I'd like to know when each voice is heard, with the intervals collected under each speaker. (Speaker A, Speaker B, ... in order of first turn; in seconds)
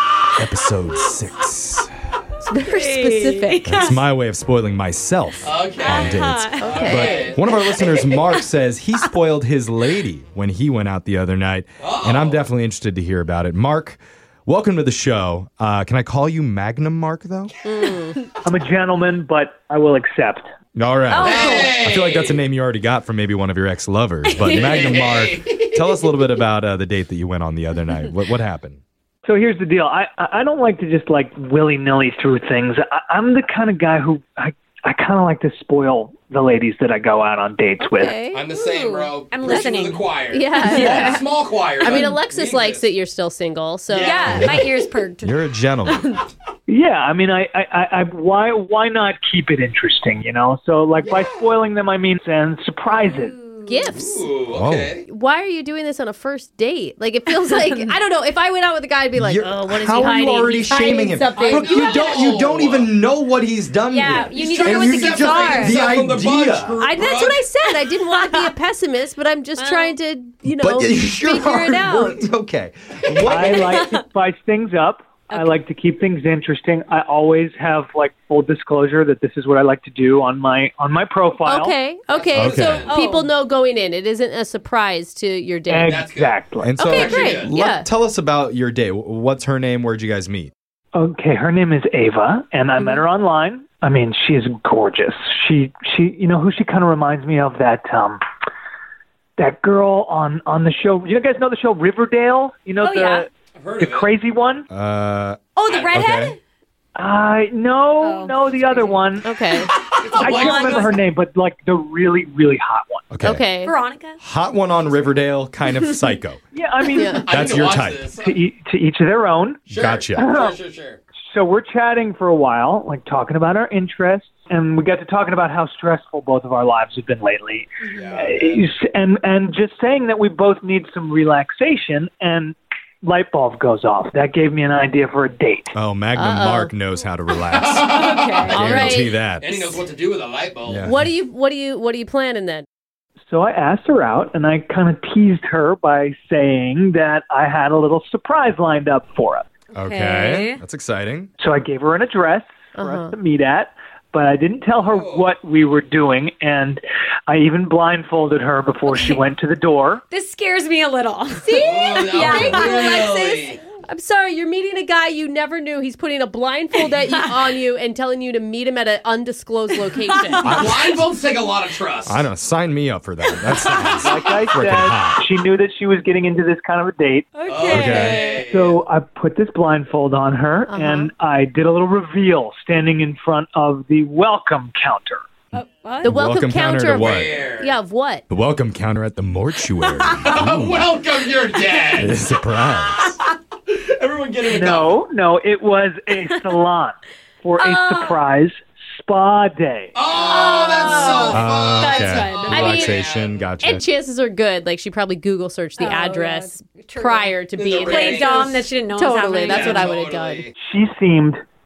Speaker A: 0.3-1.9, 3.6-17.5, 20.8-28.8, 44.3-44.6, 45.2-46.0, 54.5-54.9, 59.1-66.8, 70.5-73.9, 82.3-82.8, 86.6-90.5, 104.7-105.4, 105.9-106.3, 113.1-113.4, 114.2-116.4, 117.3-118.0, 119.7-120.3, 135.7-139.7, 140.7-141.0, 149.7-151.3, 170.4-170.9, 172.1-175.2, 177.7-178.2, 186.1-187.3, 188.3-190.9, 191.9-193.2, 201.3-203.8
Speaker B: 2.5-3.9, 6.6-7.4, 17.6-18.2, 37.8-38.4, 40.3-41.2, 41.8-44.4, 53.6-54.3, 55.0-62.2, 66.8-72.2, 81.5-86.0, 86.8-87.9, 109.2-109.7, 113.2-113.7, 116.9-117.3, 136.2-136.7, 138.2-139.2, 140.8-142.7, 152.8-153.1, 161.4-170.8, 180.7-181.1, 186.0-188.2, 202.5-203.0, 203.6-210.5
Speaker C: 2.6-4.0, 5.8-8.4, 21.1-21.8, 24.3-25.0, 38.5-40.0, 40.6-41.2, 43.9-46.3, 53.0-53.8, 57.3-57.9, 63.9-65.8, 68.0-68.5, 69.6-70.0, 73.4-74.0, 75.3-75.5, 82.8-83.3, 102.8-103.3, 105.5-106.4, 108.0-109.0, 110.0-111.0, 113.6-114.2, 138.1-138.6, 149.8-150.6, 158.9-159.2, 160.1-163.1, 167.0-167.4, 170.1-170.4, 173.4-173.9, 177.3-178.4, 185.5-186.2, 197.6-198.2, 200.1-202.7, 205.8-209.8
Speaker D: 5.4-7.4, 11.8-12.5, 21.2-22.4, 24.5-26.0, 38.3-42.9, 43.9-44.9, 51.0-51.5, 53.9-55.0, 61.4-62.9, 64.3-67.4, 82.1-83.0, 85.8-87.5, 103.5-104.2, 105.7-106.1, 109.7-111.0, 117.1-118.4, 119.7-121.0, 127.8-128.7, 137.3-140.9, 154.8-155.3, 161.6-163.6, 170.5-172.2, 177.4-178.8, 186.9-187.8, 190.1-192.2, 192.8-195.1, 199.9-203.5, 207.5-208.7, 209.4-210.5
Speaker E: 18.4-20.5, 29.2-38.2, 46.7-53.4, 73.3-81.8, 85.7-86.7, 90.9-98.2, 99.4-104.7, 107.0-109.3, 110.2-113.0, 116.5-120.6, 121.3-135.7, 143.3-149.4, 151.4-160.0, 174.0-185.2, 194.4-199.9, 210.6-211.4